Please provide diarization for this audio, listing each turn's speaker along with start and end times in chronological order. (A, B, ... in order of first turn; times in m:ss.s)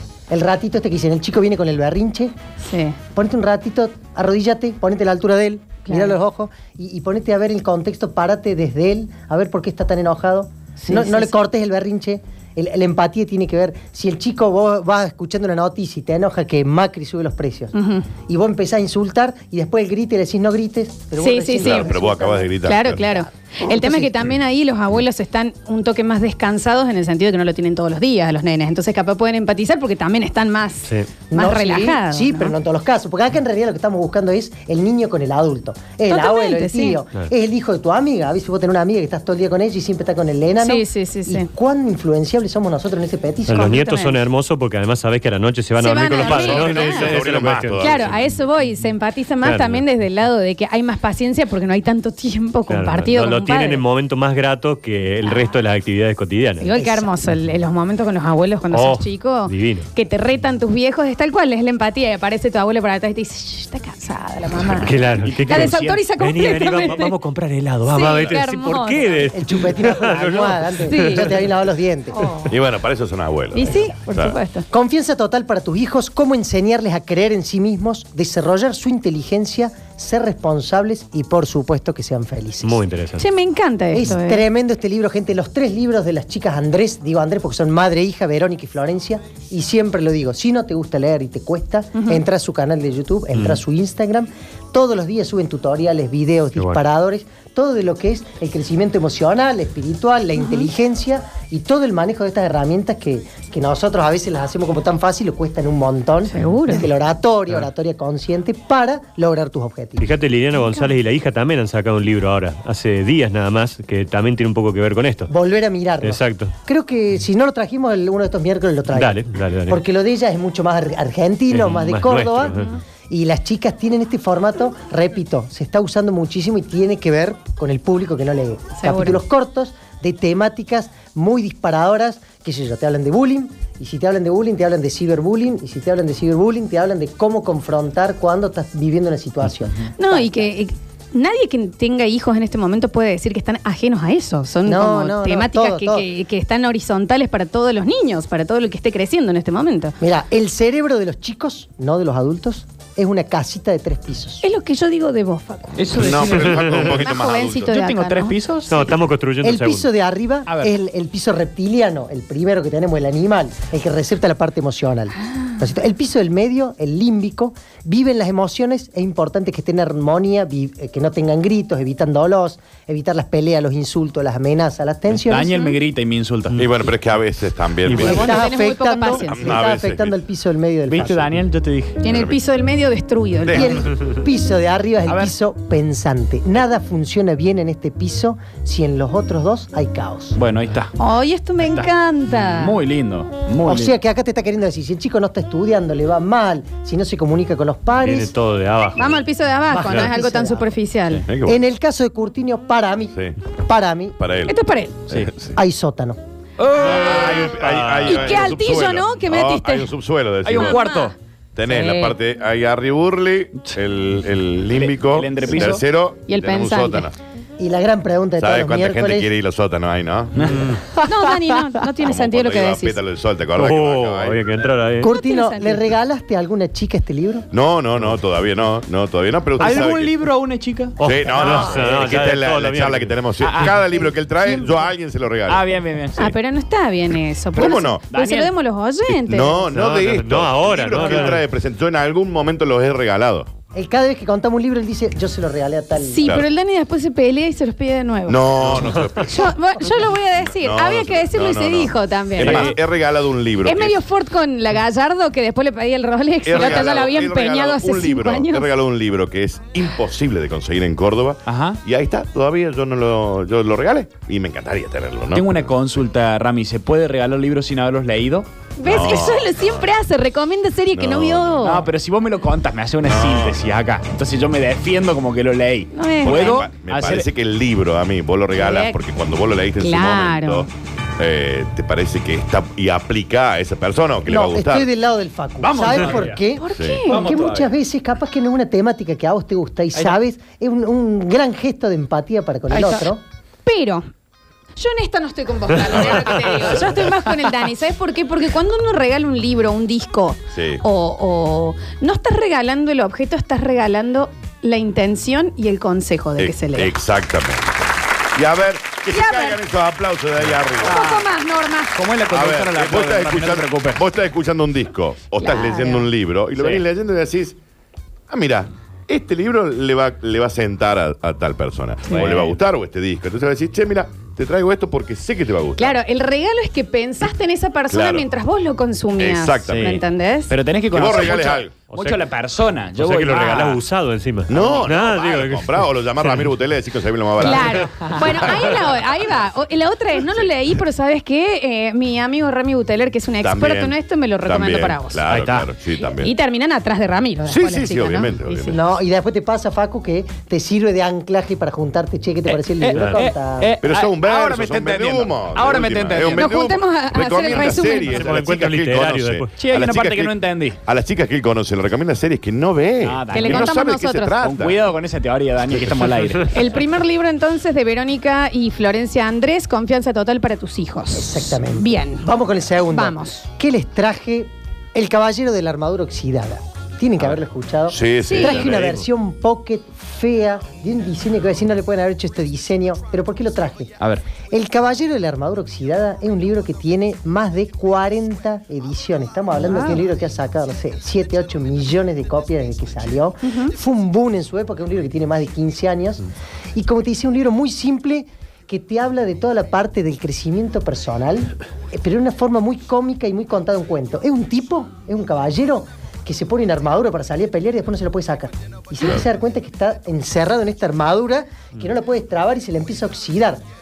0:00.3-0:02.3 A
0:02.6-0:03.0 B
0:03.2-0:17.7 A
0:05.9-0:06.2 B
0:10.8-0:11.3 B
0:17.7-0:18.1 B
0:18.3-0:24.3 A
0:21.2-0:22.0 B
0:21.6-0:23.0 C
0:22.6-0:32.5 B
0:30.9-0:31.1 D
0:31.3-0:43.8 A
0:36.1-0:37.0 B
0:40.6-0:41.5 B
0:43.5-0:48.0 D
0:43.6-0:44.2 B
0:45.8-0:47.2 B
0:46.2-0:48.2 C
0:47.8-0:53.8 B
0:49.4-0:49.8 D
0:52.7-0:56.7 D
0:55.2-0:55.5 B
0:56.6-1:07.2 B
0:56.7-0:57.1 A
0:58.7-0:59.9 D
1:04.8-1:11.4 D
1:05.2-1:06.0 E
1:07.9-1:09.3 B
1:09.3-1:12.2 A
1:10.9-1:11.4 B
1:12.1-1:12.5 B
1:12.5-1:14.4 C
1:13.5-1:14.7 B
1:14.7-1:22.8 A
1:22.6-1:23.3 D
1:23.2-1:24.4 B
1:23.9-1:50.0 A
1:32.0-1:32.2 B
1:40.4-1:40.7 B
1:46.3-1:46.9 B
1:50.0-1:55.3 D
1:50.5-1:50.9 B
1:55.3-2:02.6 A
1:56.0-1:56.5 D
1:58.9-1:59.8 D
2:01.5-2:02.6 D
2:03.1-2:20.5 A
2:08.8-2:09.2 B
2:20.0-2:30.0 B
2:24.6-2:26.1 A
2:30.0-2:34.4 A
2:34.4-2:39.0 B
2:35.8-2:38.8 E
2:35.9-2:37.8 C
2:38.7-2:39.8 D
2:39.4-2:55.7 A
2:40.5-2:40.8 E
2:55.2-2:56.7 E
2:56.5-2:58.4 C
2:57.9-2:58.3 D
2:57.9-2:59.6 B
2:58.0-3:01.3 A
2:59.1-3:00.2 C
3:00.9-3:02.0 E
3:02.0-3:03.8 B
3:02.1-3:02.4 C
3:03.5-3:10.4 A
3:05.1-3:05.3 E
3:10.4-3:11.0 E
3:11.0-3:12.8 B
3:11.6-3:11.9 E
3:12.5-3:14.0 E
3:13.6-3:18.3 A
3:18.0-3:19.2 D
3:19.0-3:21.3 B
3:19.7-3:20.8 A
3:21.3-3:21.6 C
3:21.4-3:24.2 A
3:23.1-3:23.4 C
3:24.2-3:24.6 C
3:24.5-3:25.0 B
3:25.1-3:25.6 C
3:25.6-3:26.2 A
3:26.6-3:27.8 E
3:26.8-3:30.8 C
3:27.0-3:30.0 B
3:27.7-3:28.5 D
3:30.4-3:31.2 E
3:30.5-3:31.1 B
3:31.6-3:37.2 C
3:31.7-3:32.2 B
3:34.7-3:35.8 E
3:36.3-3:37.1 B
3:37.6-3:39.3 A
3:38.4-3:41.0 C
3:40.4-3:40.7 E
3:41.0-3:43.0 B
3:42.0-3:44.6 C
3:43.6-3:45.1 D
3:45.0-3:47.5 A
3:45.0-3:45.8 B
3:47.5-3:50.2 C
3:49.6-3:51.4 E
3:51.0-3:53.2 D
3:51.0-3:55.8 C
3:53.4-3:53.8 E
3:54.0-3:54.7 B
3:55.4-3:56.4 E
3:56.2-3:59.6 B
3:57.5-3:58.0 C
3:58.1-3:58.5 E
3:59.1-4:03.5 C
3:59.7-4:01.5 D
4:03.7-4:06.3 A
4:06.0-4:12.8 B
4:08.3-4:09.5 C
4:10.4-4:14.0 C
4:12.4-4:12.8 E
4:13.6-4:18.7 B
4:16.4-4:25.6 C
4:21.4-4:21.8 E
4:25.3-4:28.5 E
4:28.8-4:31.9 B
4:28.8-4:29.9 C
4:30.9-4:31.6 C
4:31.6-4:37.3 E
4:33.0-4:33.8 C
4:35.9-4:36.7 B
4:36.2-4:44.9 C
4:38.6-4:39.0 B
4:39.8-4:40.7 B
4:44.3-4:53.2 A
4:45.6-4:46.4 E
4:46.6-4:47.3 B
4:46.8-4:47.1 C
4:47.1-4:47.7 E
4:53.6-4:54.0 B
4:54.8-5:07.0 B
5:00.5-5:00.8 C
5:06.4-5:11.0 C
5:09.1-5:09.6 B
5:10.5-5:11.2 E
5:10.8-5:12.0 B
5:11.9-5:14.0 E
5:12.3-5:17.6 C
5:15.4-5:16.1 B
5:16.6-5:16.8 E
5:18.3-5:26.0 C
5:22.1-5:22.6 E
5:25.8-5:30.6 B
5:27.9-5:28.3 C
5:29.2-5:30.0 C
5:29.6-5:33.8 E
5:30.9-5:31.8 C
5:31.1-5:31.6 B
5:31.9-5:32.2 D
5:33.0-5:36.5 D
5:34.5-5:38.8 C
5:37.4-5:45.2 B
5:37.6-5:38.0 D
5:43.4-5:46.3 C
5:45.3-5:45.7 E
5:45.3-5:45.6 D
5:46.0-5:48.8 B
5:47.5-5:48.8 C
5:48.7-5:53.8 A
5:52.5-5:56.8 E
5:53.0-5:53.2 D
5:53.8-6:04.8 C
5:56.3-5:58.4 B
5:58.0-5:59.5 D
5:59.6-6:00.8 E
6:03.0-6:03.8 E
6:03.3-6:04.4 B
6:04.4-6:06.6 E
6:06.5-6:12.3 B
6:11.1-6:23.9 A
6:12.9-6:13.5 B
6:17.9-6:18.6 C
6:18.2-6:18.7 B
6:18.4-6:19.0 D
6:24.5-6:53.6 A
6:29.6-6:30.0 B
6:33.4-6:33.7 B